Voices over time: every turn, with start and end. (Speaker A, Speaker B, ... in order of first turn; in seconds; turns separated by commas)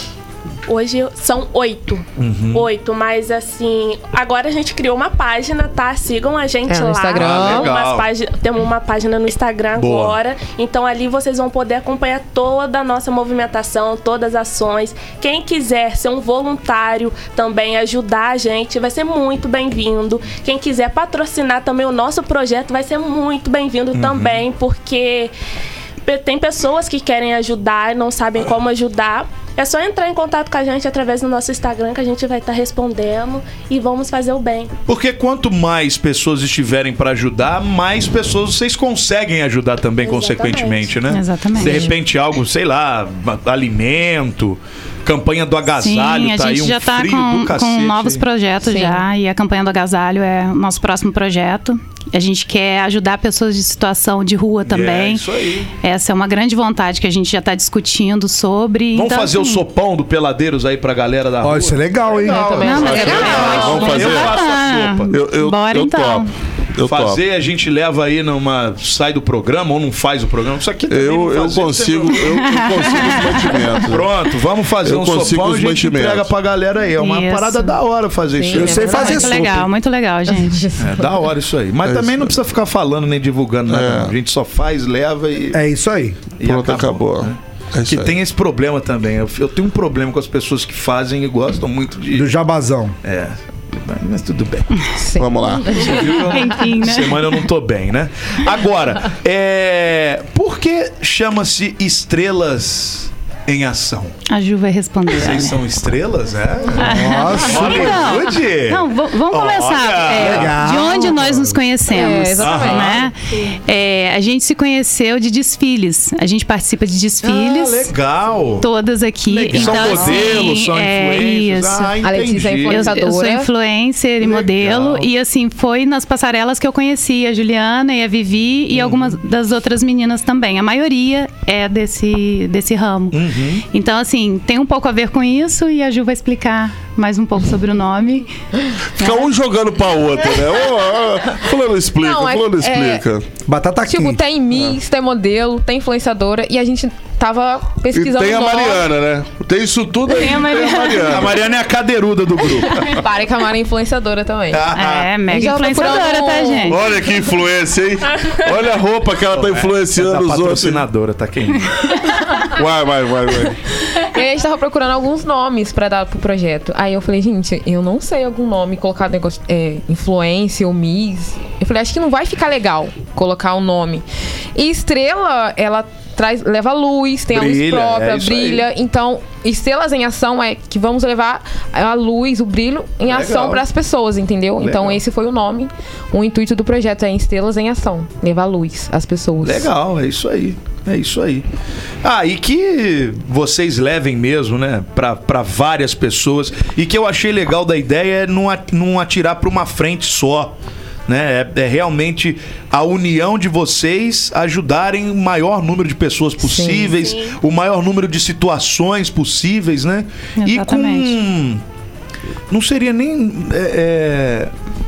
Speaker A: 0.7-25.3, Speaker B: 2.2-2.7, Speaker C: 6.7-7.7, Speaker B: 7.1-8.1, Speaker B: 9.8-10.2, Speaker B: 23.9-24.4, Speaker A: 26.1-34.7, Speaker B: 34.9-48.2, Speaker A: 40.0-40.9, Speaker D: 41.1-41.9, Speaker D: 45.8-55.3, Speaker C: 48.6-49.0, Speaker B: 54.6-55.7, Speaker D: 55.8-59.6, Speaker B: 58.9-65.1, Speaker E: 61.4-63.1, Speaker C: 62.1-64.2, Speaker D: 62.6-66.3, Speaker F: 62.8-64.4, Speaker F: 65.1-67.2, Speaker B: 66.8-73.0, Speaker F: 70.9-74.3, Speaker D: 72.5-73.6, Speaker B: 73.8-79.0, Speaker F: 74.8-76.3, Speaker D: 77.0-77.8, Speaker C: 78.3-79.5, Speaker E: 78.5-79.7, Speaker D: 78.8-80.7, Speaker C: 80.3-81.1, Speaker B: 80.8-85.6, Speaker F: 81.8-82.3, Speaker F: 83.7-84.1, Speaker E: 85.5-86.2, Speaker B: 86.4-92.3, Speaker F: 86.4-88.2, Speaker E: 92.1-93.0, Speaker B: 93.0-94.9, Speaker C: 95.0-96.4, Speaker F: 95.2-95.8, Speaker B: 95.7-104.2, Speaker D: 96.1-97.3, Speaker D: 104.3-105.6, Speaker B: 105.1-110.6, Speaker D: 106.8-117.9, Speaker E: 106.8-108.1, Speaker E: 110.2-111.6, Speaker C: 111.9-113.1, Speaker B: 112.4-113.1, Speaker B: 117.3-118.7, Speaker D: 118.6-122.0, Speaker B: 119.3-123.0, Speaker C: 119.6-120.2, Speaker C: 122.0-123.5, Speaker D: 122.6-138.3, Speaker B: 124.2-125.1, Speaker B: 128.7-129.2, Speaker B: 133.1-133.6, Speaker F: 139.0-143.2, Speaker C: 142.0-143.0, Speaker E: 143.5-144.2, Speaker C: 143.9-148.9, Speaker F: 147.9-151.4, Speaker D: 150.1-151.2, Speaker B: 151.0-153.0, Speaker C: 152.8-154.7, Speaker B: 154.5-155.9, Speaker D: 154.7-156.8, Speaker C: 155.3-156.8, Speaker F: 156.7-160.8, Speaker B: 159.3-161.9, Speaker F: 162.5-163.6, Speaker C: 163.9-189.7, Speaker B: 177.3-178.7, Speaker B: 183.0-183.6, Speaker B: 184.6-185.0, Speaker B: 189.4-191.5, Speaker B: 192.0-200.6, Speaker B: 201.1-211.6, Speaker C: 206.4-207.0, Speaker A: 207.0-207.4, Speaker D: 210.4-211.2, Speaker B: 212.5-214.5